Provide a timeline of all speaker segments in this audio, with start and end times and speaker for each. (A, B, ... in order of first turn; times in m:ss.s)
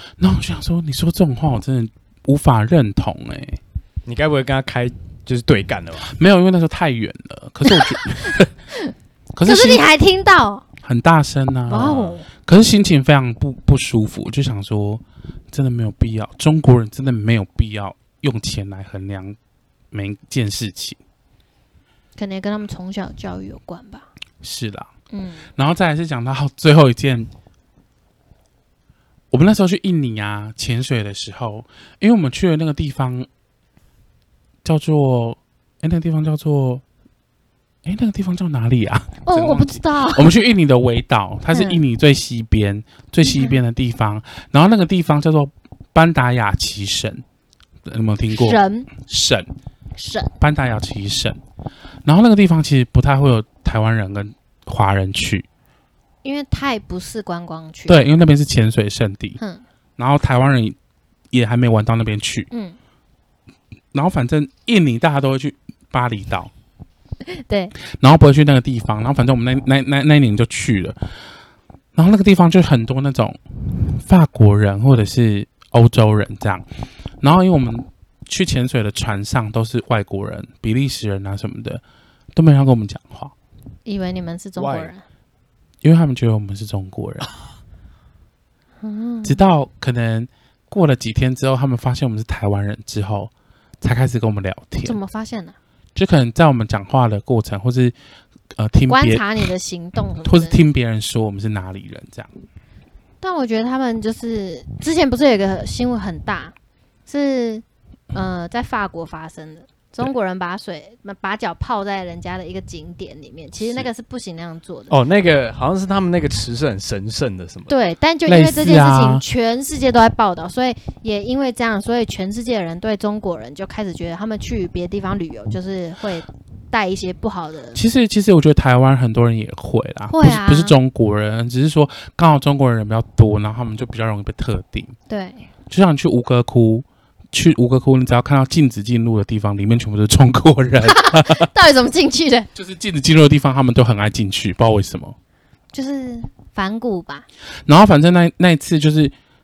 0:00.2-0:03.6 A
0:04.0-0:06.1 B
0:06.0-0:08.5 A
0:09.3-0:09.8 A
0:09.4-0:10.6 C
0:10.8-0:19.4 A
0:11.7-0:12.2 C
0:11.7-0:12.1 B
0:19.9-0:21.0 A
0:22.2-0:24.1 C
0:24.4-0:24.9 A
0:25.1-0:25.5 C
0:25.6-0:27.3 A
0:29.3-0:33.3 A
0:34.6-0:36.8 A
0:37.8-0:47.2 A
0:39.2-0:40.3 C
0:41.5-0:41.8 C
0:43.2-0:43.6 C
0:47.8-0:49.5 A
0:48.3-0:48.9 C
0:50.0-0:50.3 C
0:50.4-0:51.4 A
0:52.0-0:55.5 A
0:56.2-0:58.0 C
0:57.9-0:59.4 A
1:00.0-1:00.8 A
1:01.3-1:02.5 A
1:02.5-1:02.8 C
1:03.9-1:06.5 A
1:07.2-1:07.7 C
1:07.8-1:11.0 A
1:11.9-1:16.6 A
1:17.2-1:21.8 A
1:22.3-1:23.3 A
1:23.8-1:25.0 C
1:24.6-1:24.9 B
1:25.8-1:27.3 A
1:28.8-1:29.4 C
1:29.2-1:35.0 A
1:34.8-1:35.6 C
1:35.9-1:37.9 A
1:38.5-1:39.3 A
1:38.9-1:40.6 C
1:40.2-1:42.3 A
1:43.2-1:46.5 C
1:47.1-1:54.9 C
1:53.6-1:53.9 B
1:54.9-1:57.7 B
1:57.7-2:07.8 C
1:58.2-1:59.2 A
2:07.7-2:14.9 A
2:10.1-2:10.8 C
2:15.1-2:15.5 C
2:15.7-2:21.5 A
2:20.8-2:22.5 C
2:22.5-2:25.2 A
2:25.7-2:27.2 C
2:27.7-2:29.1 A